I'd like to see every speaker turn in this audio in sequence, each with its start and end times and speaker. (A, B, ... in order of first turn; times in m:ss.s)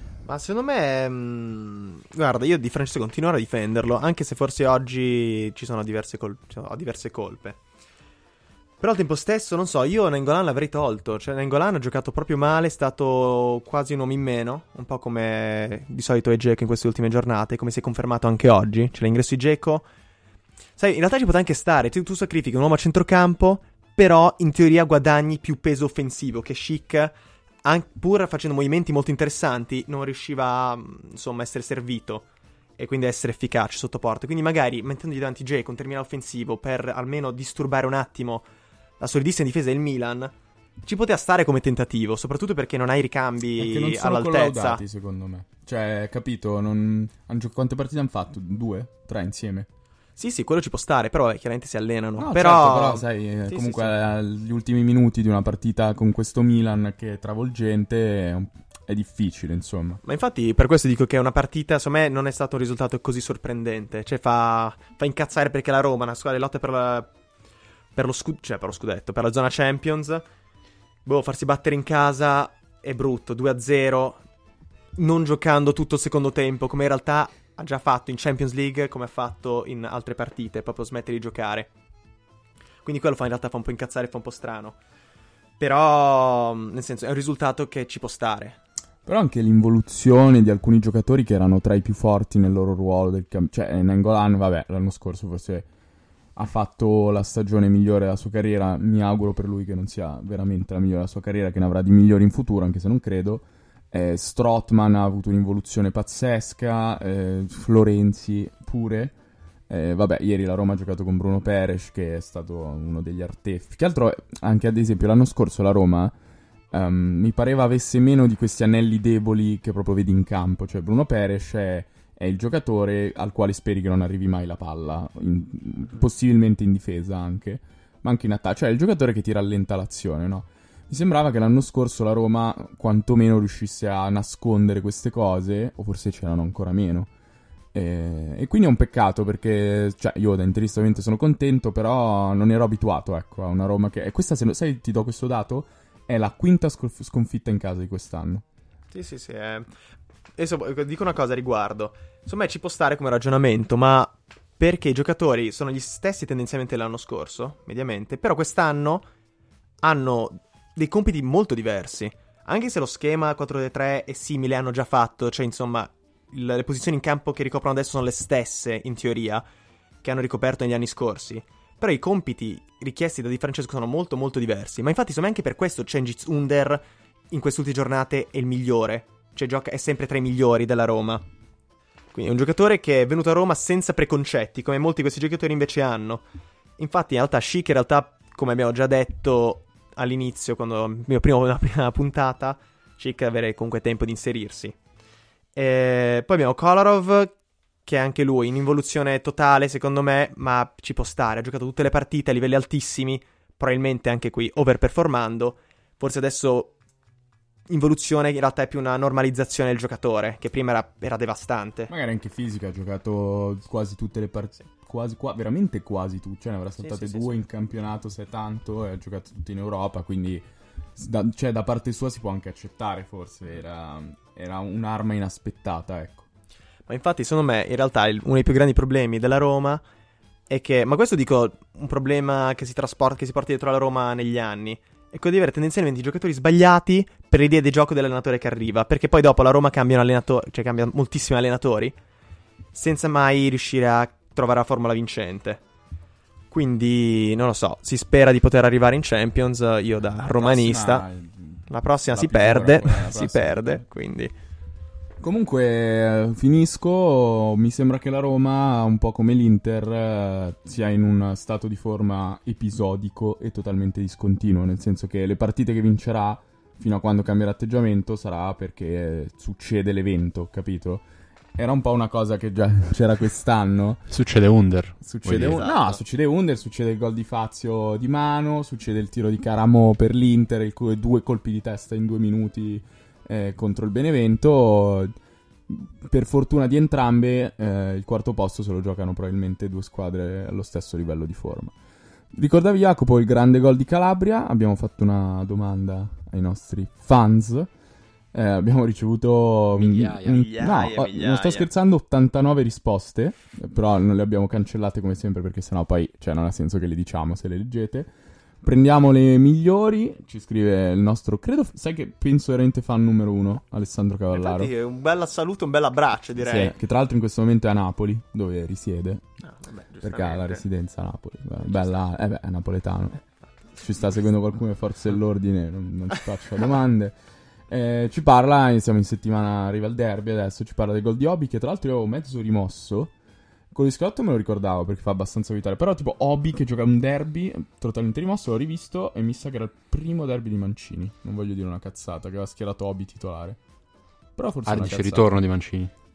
0:00.3-0:07.6 A
0:08.8-0:19.9 A
0:20.8-0:32.3 A
0:32.8-0:38.5 A
0:39.0-0:40.3 A
0:40.8-0:44.8 A
0:43.6-0:49.7 B
0:50.2-0:53.9 A
0:52.2-1:00.0 B
1:00.0-1:07.1 A
1:08.0-1:10.2 A
1:11.0-1:14.2 A
1:15.0-1:21.7 A
1:22.8-1:24.8 A
1:25.6-1:28.6 A
1:29.0-1:35.7 B
1:36.4-1:49.2 B
1:49.7-1:56.2 B
1:56.7-2:17.1 B
2:17.7-2:28.4 B
2:28.9-2:29.7 A
2:30.4-2:39.1 A
2:39.8-2:49.4 A
2:50.0-3:01.2 A
3:02.1-3:06.2 A
3:06.8-3:14.8 A
3:15.6-3:26.8 A
3:27.7-3:31.9 A
3:31.9-3:40.4 B
3:36.8-3:37.4 A
3:41.0-3:46.3 B
3:46.9-3:49.8 A
3:50.5-4:02.0 A
4:02.7-4:05.6 A
4:06.5-4:11.0 A
4:10.3-4:13.8 B
4:11.7-4:14.3 A
4:15.2-4:34.0 B
4:34.1-4:35.6 C
4:35.0-4:45.1 B
4:35.5-4:36.0 A
4:45.7-4:51.8 B
4:52.3-4:57.7 B
4:58.3-5:14.7 B
4:59.8-5:00.4 C
5:00.3-5:01.7 A
5:14.3-5:16.7 A
5:16.4-5:19.3 B
5:19.4-5:20.6 A
5:20.0-5:23.2 B
5:23.8-5:27.2 B
5:27.7-5:33.1 B
5:33.7-5:43.6 B
5:44.4-5:45.3 B
5:44.7-5:45.9 C